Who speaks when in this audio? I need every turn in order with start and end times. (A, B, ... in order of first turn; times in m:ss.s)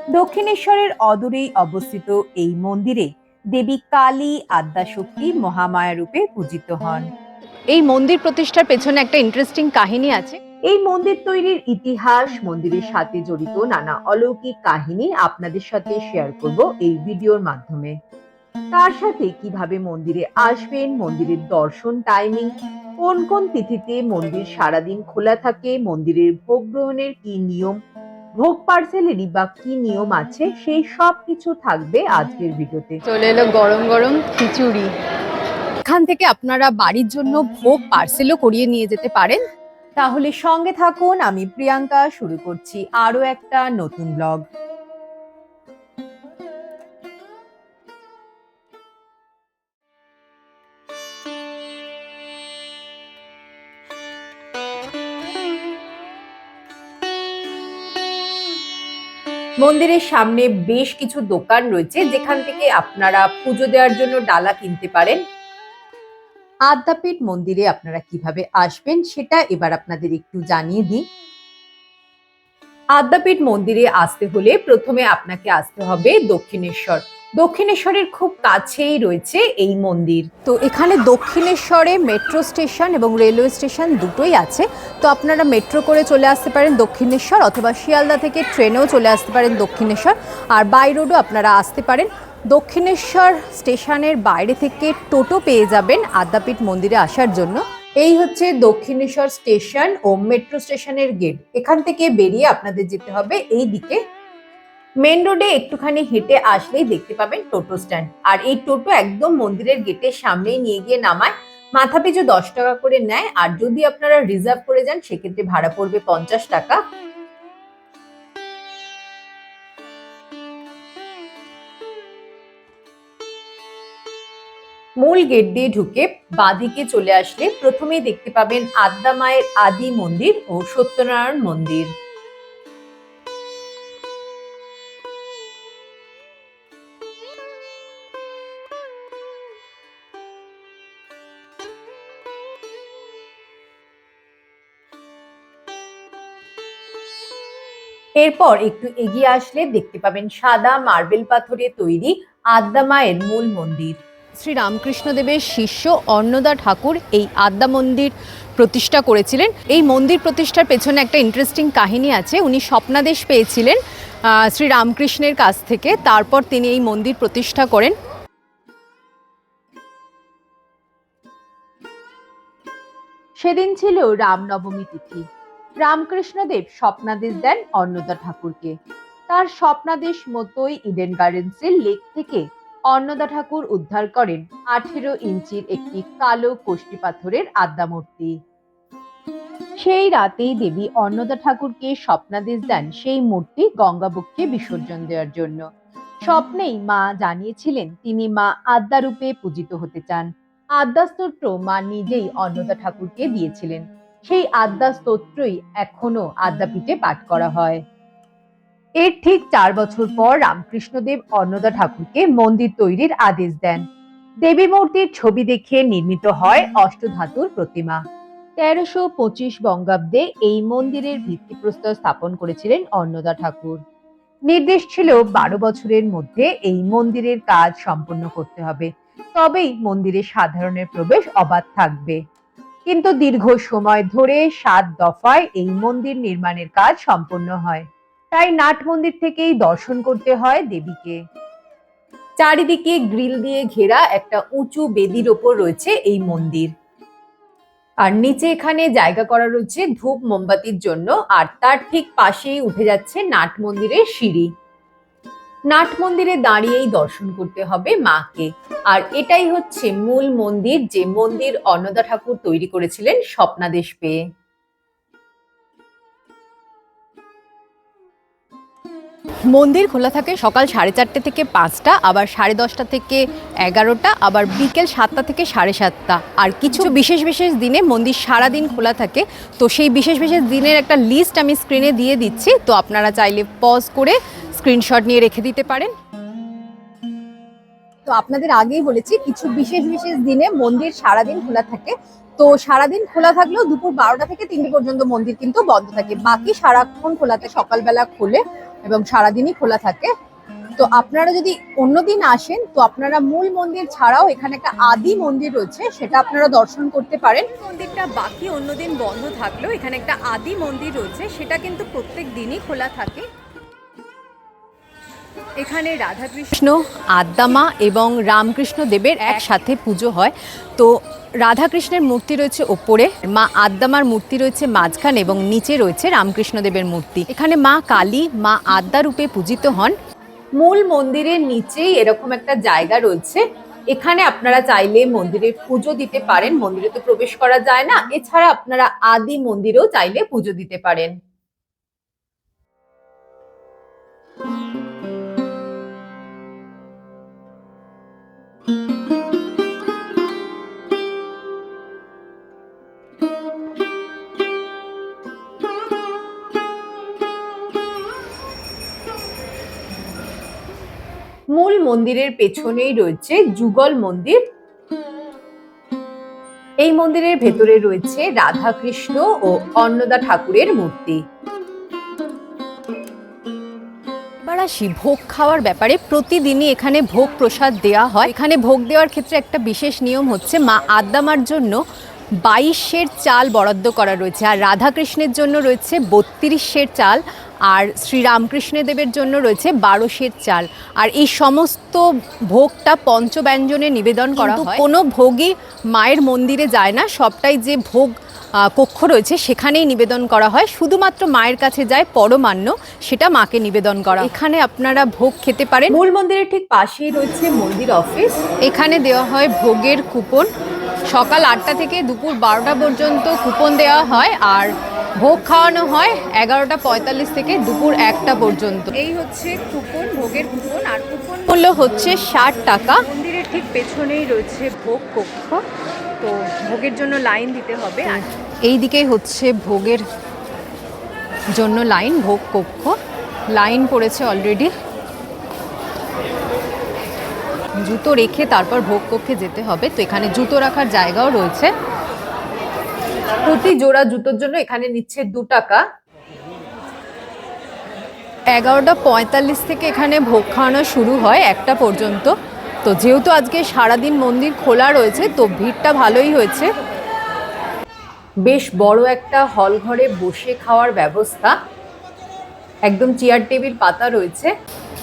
0:00.2-0:07.1 A
0:07.7-0:10.4 B
0:10.7-0:18.0 A
0:18.7-0:27.8 A
0:28.4-0:33.0 A
0:33.0-0:34.9 B
0:35.9-0:39.4 B
0:40.0-0:44.4 A
0:59.6-1:05.2 A
1:06.7-1:11.0 A
1:13.0-1:20.3 A
1:20.5-1:37.6 B
1:38.0-1:44.0 A
1:45.0-1:56.8 A
2:05.0-2:11.9 A
2:28.2-2:34.0 A
2:34.4-2:47.9 B
2:53.4-2:55.2 A
2:55.8-2:58.8 A
2:59.3-3:08.4 A
3:09.8-3:15.6 A
3:16.3-3:27.8 A
3:29.0-3:33.8 A
3:34.4-3:38.0 A
3:38.6-3:43.8 A
3:44.5-3:52.2 A
3:52.9-4:01.2 A
4:02.4-4:06.7 A
4:08.0-4:14.5 A
4:15.7-4:24.2 A
4:29.5-4:45.9 B
4:48.1-5:00.1 B
5:00.8-5:13.2 B
5:15.6-5:30.0 B
5:30.6-5:33.4 A
5:33.9-5:41.1 A
6:01.6-6:04.4 A
6:06.8-6:11.2 A
6:14.5-6:21.8 B
6:22.4-6:46.0 B
6:34.5-6:34.8 A
6:45.9-6:48.3 A
6:48.6-6:50.5 B
6:51.1-6:59.1 B
6:59.0-7:01.2 A
7:00.1-7:00.4 B
7:01.0-7:05.6 B
7:06.2-7:10.0 B
7:11.5-7:13.0 B
7:13.5-7:14.7 B
7:17.8-7:21.7 B
7:23.5-7:25.8 A
7:28.5-7:32.3 B
7:32.8-7:36.7 B
7:38.5-7:41.5 A
7:42.9-7:44.5 A